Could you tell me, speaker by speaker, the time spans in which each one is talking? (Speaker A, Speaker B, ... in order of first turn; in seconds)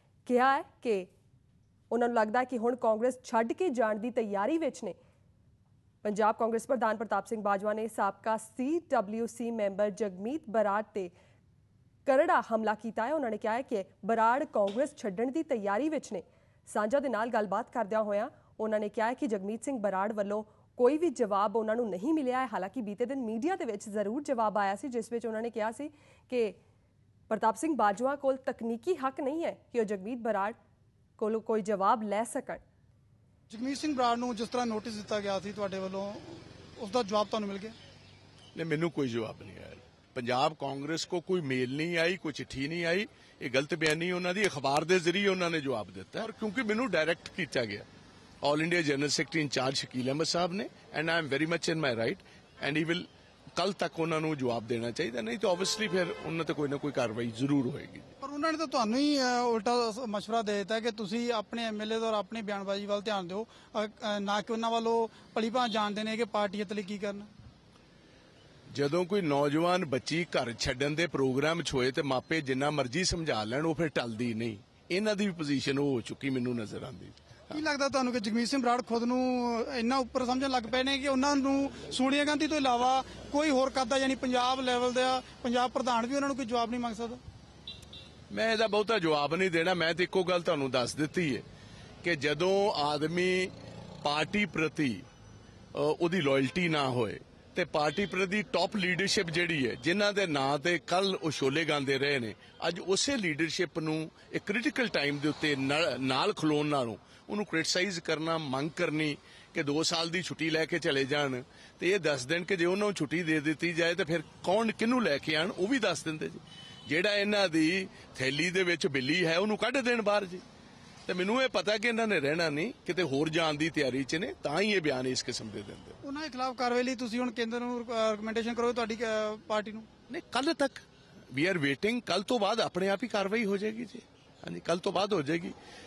Speaker A: 0.2-1.1, 1.9-5.0, 6.0-11.1, 12.1-26.6, 27.3-30.6, 31.2-32.6
Speaker B: 33.5-37.8, 58.2-67.3, 77.5-87.2, 126.0-129.8
Speaker C: 38.5-47.8, 48.4-53.0, 53.6-58.1, 68.7-77.2, 88.3-91.4, 92.0-95.0, 95.7-120.4, 121.1-126.0, 130.1-130.8, 131.3-135.5